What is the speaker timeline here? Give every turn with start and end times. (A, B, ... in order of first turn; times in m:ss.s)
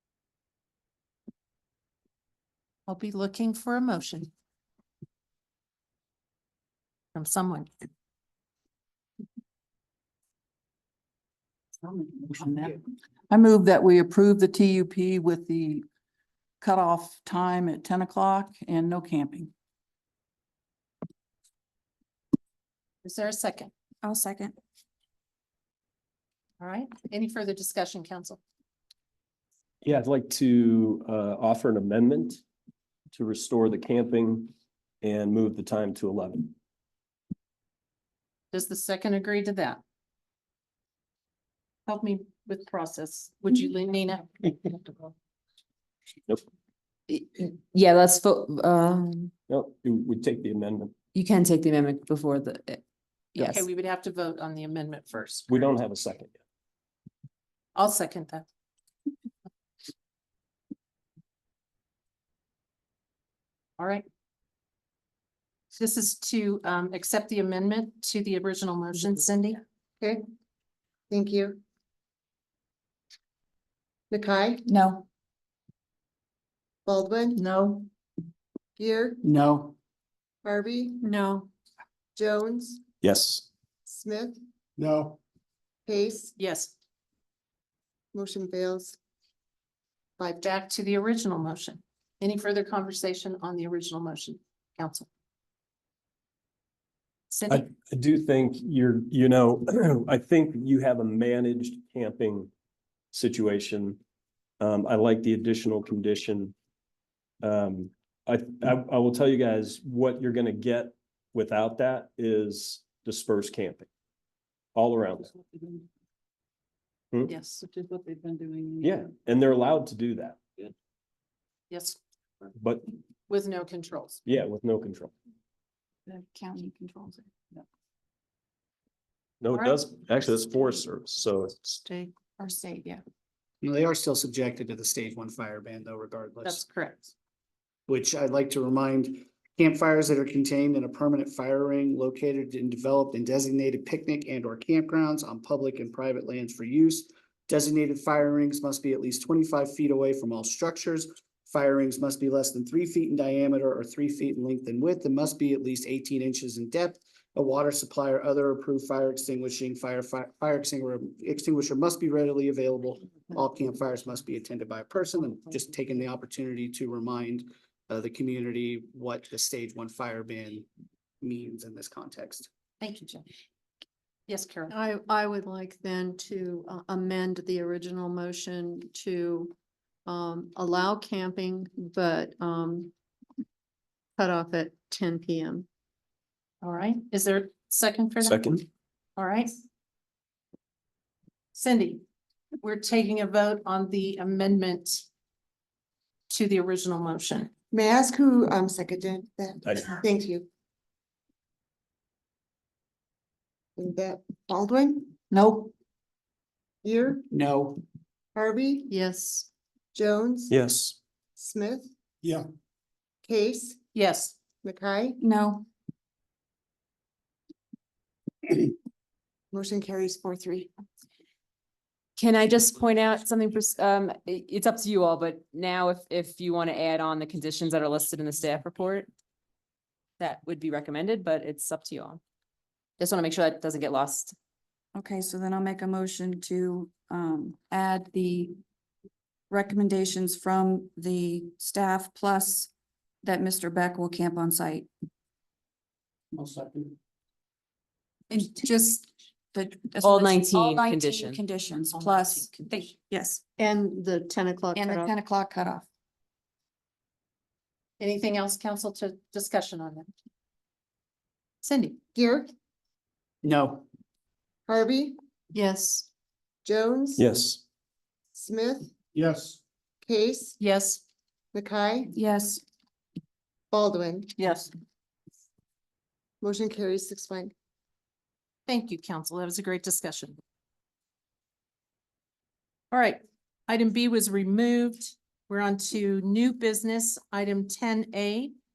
0:02.9-0:04.3 A
0:07.2-0:07.7 A
0:11.8-0:15.8 B
0:16.6-0:19.5 B
0:23.0-0:23.7 A
0:24.0-0:24.6 C
0:26.6-0:28.4 A
0:29.8-0:32.4 D
0:33.1-0:36.5 D
0:38.5-0:39.8 A
0:41.9-0:45.1 A
0:47.1-0:49.3 E
0:49.5-0:50.9 D
0:51.1-0:52.8 E
0:53.4-0:55.8 A
0:53.4-0:53.7 E
0:55.5-0:56.3 D
0:57.8-0:58.5 A
1:03.8-1:04.0 A
1:05.8-1:09.6 A
1:11.1-1:11.6 F
1:14.1-1:14.7 F
1:14.7-1:15.0 C
1:16.9-1:17.4 F
1:17.4-1:17.9 A
1:18.8-1:19.2 F
1:19.2-1:19.8 G
1:20.4-1:21.0 F
1:21.1-1:21.5 H
1:22.2-1:22.8 F
1:23.0-1:23.4 D
1:23.9-1:24.4 F
1:24.8-1:25.2 G
1:25.9-1:26.4 F
1:26.4-1:26.7 A
1:28.1-1:29.0 F
1:30.2-1:30.5 F
1:30.4-1:35.1 A
1:37.3-1:37.7 A
1:37.5-1:42.5 D
1:43.1-1:44.0 D
1:44.6-1:46.5 D
1:47.4-1:53.9 D
1:54.8-1:55.2 D
1:55.5-1:55.8 B
1:57.3-1:57.6 A
1:57.7-1:58.9 B
1:58.8-2:00.4 D
2:01.7-2:02.0 A
2:02.6-2:02.9 D
2:03.3-2:04.2 A
2:04.2-2:05.1 D
2:06.1-2:07.3 C
2:09.4-2:11.5 D
2:09.5-2:09.8 A
2:11.8-2:13.0 A
2:13.6-2:16.6 G
2:16.4-2:17.1 A
2:17.9-2:50.7 G
2:51.2-2:52.5 G
2:52.8-2:53.3 A
2:54.3-2:54.8 A
2:54.7-2:59.5 H
3:00.1-3:02.9 H
3:04.2-3:05.7 H
3:06.6-3:08.4 A
3:09.2-3:09.5 A
3:11.5-3:12.0 A
3:12.6-3:15.0 A
3:16.3-3:17.5 A
3:17.7-3:20.5 F
3:23.8-3:25.1 F
3:25.3-3:25.7 A
3:26.8-3:27.2 F
3:27.3-3:27.8 G
3:28.4-3:29.0 F
3:28.9-3:29.5 A
3:29.9-3:30.5 F
3:30.5-3:30.9 D
3:31.4-3:31.9 F
3:33.3-3:33.8 F
3:34.0-3:34.4 A
3:34.6-3:35.2 F
3:35.2-3:35.7 C
3:39.5-3:40.7 F
3:42.2-3:49.1 E
3:50.2-3:52.2 E
3:53.0-3:54.4 E
3:55.0-3:58.6 C
3:59.5-4:02.7 C
4:03.2-4:04.9 C
4:06.3-4:07.0 G
4:08.3-4:13.4 C
4:10.0-4:11.4 E
4:11.9-4:12.5 A
4:13.6-4:15.1 H
4:14.7-4:15.9 C
4:18.0-4:20.1 A
4:21.6-4:22.0 A
4:22.2-4:22.5 F
4:23.4-4:23.9 G
4:24.7-4:25.2 F
4:25.5-4:26.0 A
4:26.6-4:27.3 F
4:27.2-4:27.6 D
4:28.3-4:28.9 F
4:29.1-4:29.6 G
4:30.0-4:30.6 F
4:30.6-4:31.0 A
4:31.5-4:32.1 F
4:32.1-4:32.6 C
4:33.7-4:34.3 F
4:34.4-4:34.7 A
4:36.4-4:37.5 F
4:38.7-4:40.4 A
4:42.9-4:48.5 A